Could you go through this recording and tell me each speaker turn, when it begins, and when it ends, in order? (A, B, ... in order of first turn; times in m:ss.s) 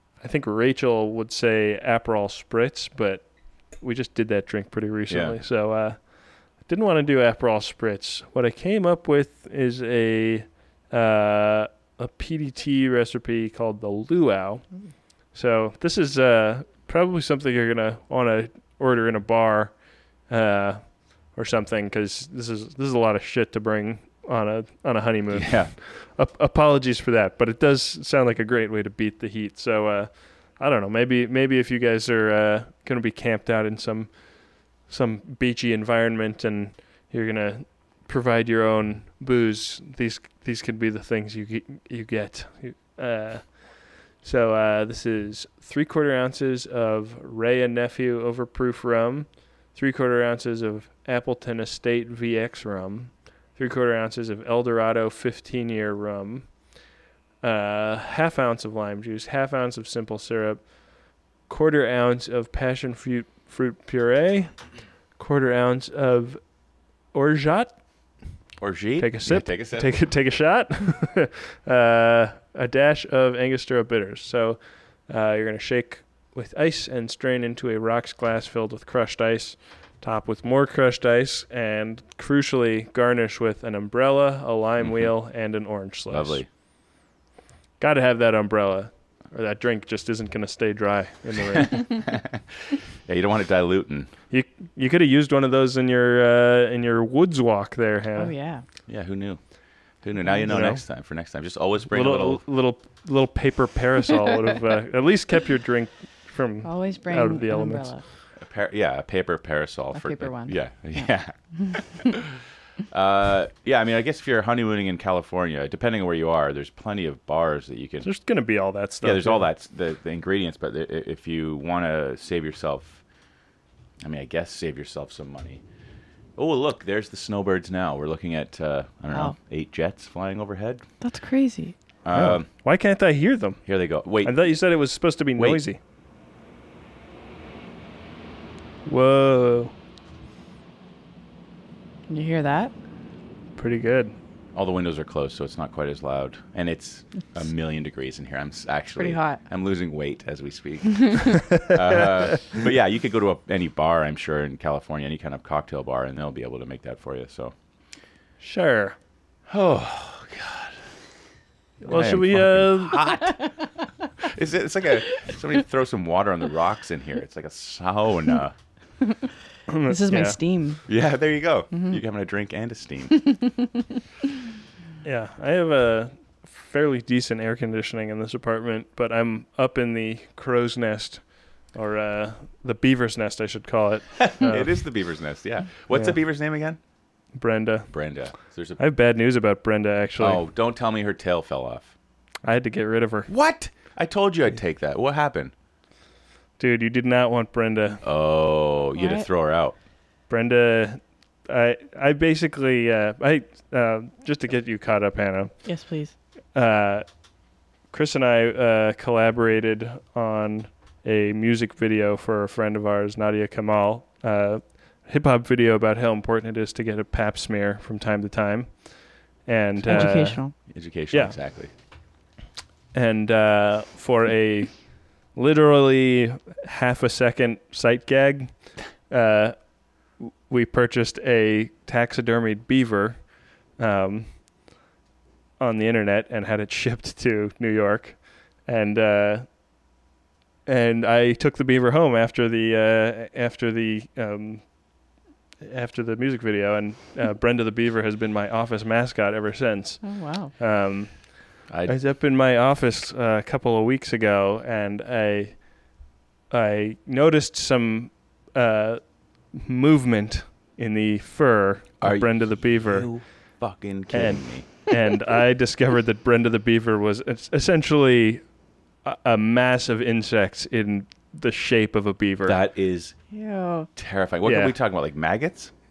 0:00.2-0:56.9 A
0:05.1-0:05.4 B
0:25.3-0:25.7 B
0:57.4-1:04.6 A
1:05.2-1:08.4 A
1:08.6-1:10.0 B
1:09.0-1:26.4 A
1:24.8-1:25.1 B
1:26.1-1:26.5 B
1:27.8-1:31.9 A
1:31.5-1:32.4 B
1:33.0-1:34.1 B
1:34.3-1:38.3 A
1:38.2-1:38.6 C
1:38.9-1:39.4 B
1:40.0-1:42.4 B
1:40.5-1:40.8 A
1:41.9-1:47.9 A
1:46.6-1:48.0 C
1:48.4-1:58.1 B
1:49.9-1:51.0 C
1:58.0-1:59.5 A
1:59.0-2:03.0 B
2:04.0-2:05.6 B
2:06.4-2:10.8 B
2:11.0-2:11.7 C
2:12.0-2:12.5 B
2:12.1-2:13.6 A
2:13.7-2:14.4 B
2:14.2-2:15.8 A
2:15.4-2:15.6 B
2:18.9-2:19.7 A
2:22.1-2:22.7 C
2:23.6-2:24.1 A
2:24.5-2:37.5 B
2:29.0-2:29.4 C
2:31.6-2:32.4 A
2:38.4-2:39.0 A
2:39.5-2:40.8 B
2:41.8-2:43.1 A
2:41.9-2:43.5 B
2:43.3-2:43.7 C
2:44.2-2:48.5 B
2:49.7-2:50.4 A
2:49.9-2:50.8 C
2:50.9-2:53.3 B
2:51.7-2:52.0 C
2:55.0-3:04.8 A
3:04.2-3:06.8 B
3:07.3-3:07.9 A
3:07.9-3:08.8 B
3:08.8-3:10.4 A
3:10.2-3:11.9 B
3:12.4-3:13.3 A
3:13.3-3:15.5 B
3:16.6-3:18.0 A
3:18.0-3:19.7 B
3:19.0-3:19.3 C
3:20.3-3:25.7 A
3:25.6-3:26.1 C
3:26.5-3:27.3 A
3:27.9-3:40.4 A
3:39.8-3:41.7 B
3:39.9-3:40.5 C
3:41.1-3:41.4 A
3:42.9-3:54.4 A
3:55.6-3:59.5 A
4:00.7-4:05.0 A
4:05.6-4:16.0 A
4:10.0-4:10.5 C
4:11.7-4:12.0 B
4:16.5-4:23.5 A
4:22.0-4:24.7 B
4:24.1-4:32.6 A
4:32.4-4:33.2 B
4:33.3-4:33.9 C
4:34.0-4:35.7 B
4:34.4-4:34.7 A